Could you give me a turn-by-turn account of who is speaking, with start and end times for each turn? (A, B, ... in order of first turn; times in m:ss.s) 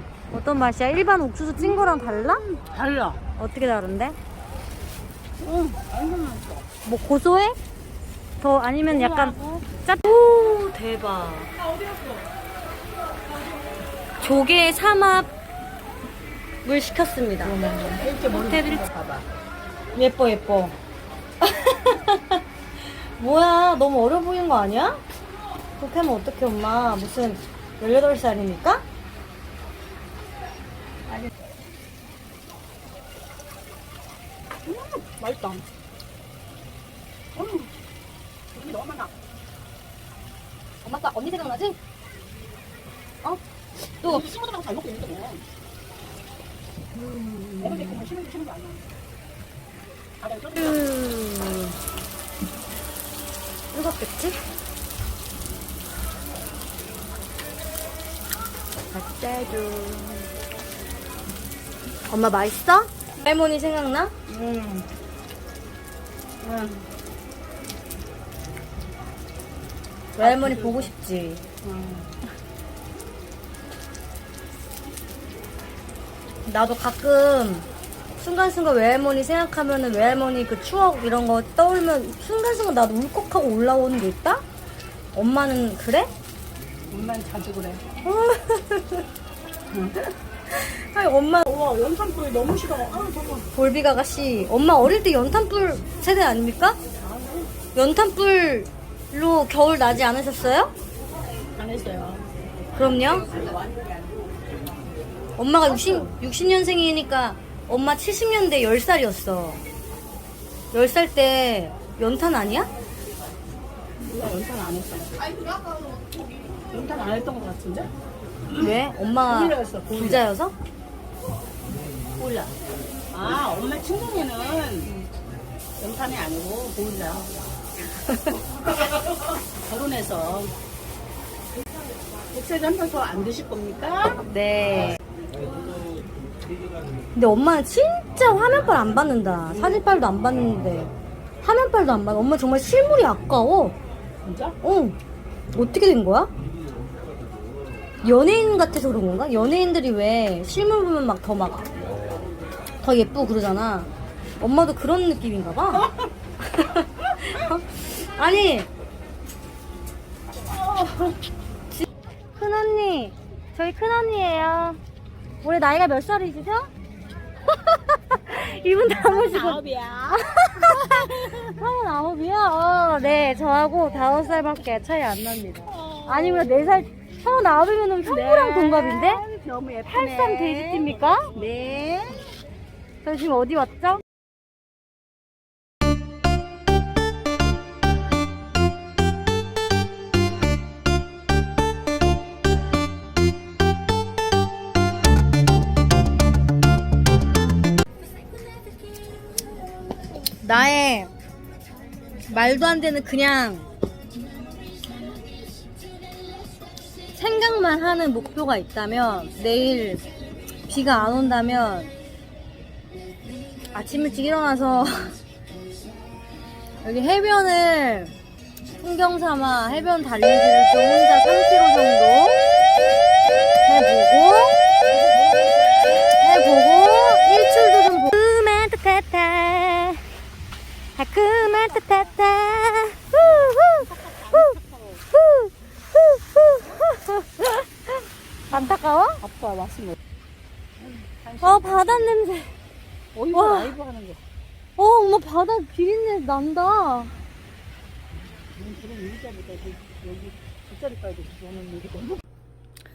0:00.3-0:02.4 A
0:01.6-0:03.2 B
0:03.4-0:04.2 A
0:05.4-0:06.7 B
0:06.8-0:07.6 A
0:08.4-0:11.5 A
0:08.9-0:09.6 B
0:14.2-0:15.3 A
0:16.6-0:18.8 A
0:17.5-0:19.3 B
0:20.0-0:20.8 A
0:21.4-0:22.4 A
0:23.0-0:25.0 A
0:25.8-0:28.8 A
0:34.6-0:35.6 B
0:37.3-0:37.7 B
0:38.5-0:39.1 B
0:40.8-0:41.8 A
0:44.0-0:45.5 B
0:47.0-0:48.9 B
0:47.6-0:48.0 A
0:50.2-0:50.8 B
0:50.6-0:51.8 A
0:53.7-0:54.4 A
0:58.9-1:00.3 A
1:02.1-1:04.1 A
1:04.3-1:04.9 B
1:06.4-1:06.9 B
1:10.2-1:11.4 A
1:10.2-1:10.9 B
1:11.6-1:12.2 B
1:16.4-1:24.4 A
1:25.1-1:26.1 A
1:26.9-1:27.9 B
1:28.0-1:29.1 A
1:29.7-1:30.2 B
1:30.5-1:31.4 A
1:31.4-1:33.5 B
1:33.6-1:36.8 A
1:37.0-1:37.6 B
1:37.7-1:40.7 A
1:41.6-1:42.3 B
1:42.8-1:43.3 A
1:45.4-1:49.6 A
1:45.7-1:46.1 B
1:50.7-1:52.7 A
1:54.0-1:55.3 B
1:56.7-1:57.9 B
1:58.6-2:00.6 A
1:59.3-2:00.2 B
2:02.2-2:02.6 B
2:03.1-2:05.1 B
2:05.8-2:07.3 B
2:08.7-2:10.5 B
2:12.3-2:14.2 B
2:14.3-2:15.0 A
2:17.2-2:23.8 A
2:24.2-2:24.6 B
2:24.6-2:25.0 A
2:25.5-2:26.3 A
2:28.0-2:31.6 A
2:32.8-2:33.9 A
2:34.4-2:38.7 A
2:40.3-2:41.2 B
2:42.4-2:44.8 A
2:45.4-2:46.7 A
2:47.5-2:49.6 A
2:48.7-2:51.6 B
2:50.4-2:59.2 A
2:55.6-2:56.9 B
2:58.0-3:02.3 B
2:59.9-3:01.3 A
3:03.0-3:04.0 A
3:20.4-3:21.1 A
3:22.3-3:23.7 A
3:27.1-3:30.0 A
3:30.7-3:31.9 A
3:33.7-3:35.2 A
3:36.8-3:38.1 A
3:38.8-3:42.4 A
3:43.6-3:44.6 A
3:44.9-3:46.0 B
3:46.0-3:50.3 A
3:51.0-3:54.5 A
3:53.8-3:55.0 B
3:55.1-3:59.2 A
3:59.2-4:00.0 B
4:00.8-4:02.2 B
4:01.4-4:02.6 A
4:03.1-4:04.2 B
4:03.3-4:03.8 A
4:04.8-4:07.2 A
4:08.6-4:12.2 B